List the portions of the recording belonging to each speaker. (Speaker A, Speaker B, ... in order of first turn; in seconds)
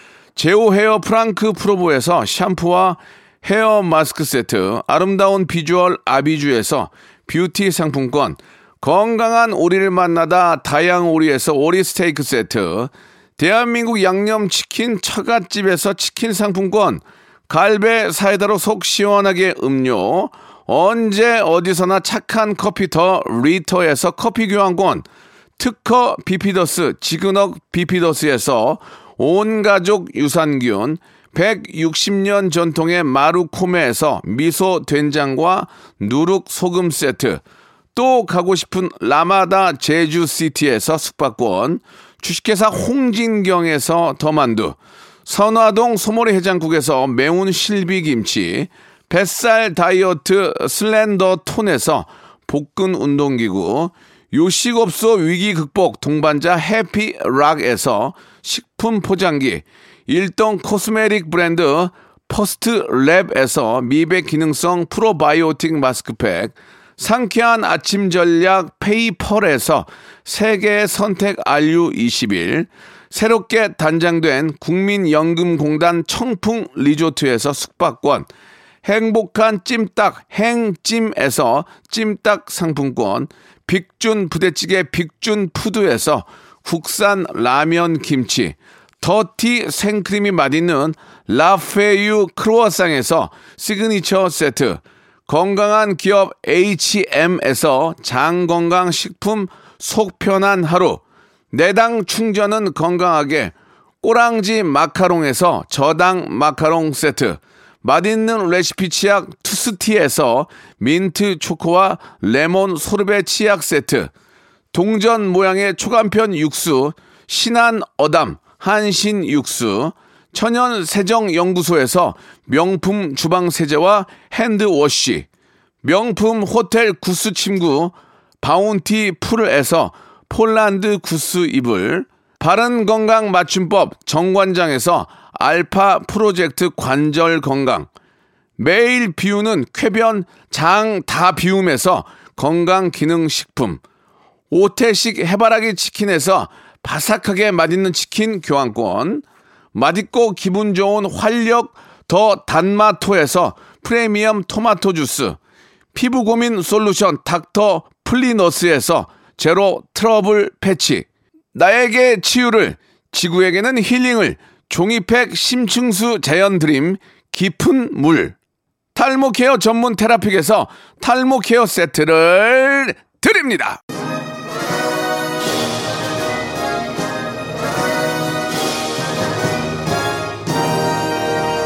Speaker A: 0.3-25.1, 25.6-37.4, 37.9-78.3, 78.8-114.1, 114.7-125.3, 125.8-137.9, 138.6-143.8, 144.5-155.4, 155.9-168.3, 168.9-173.8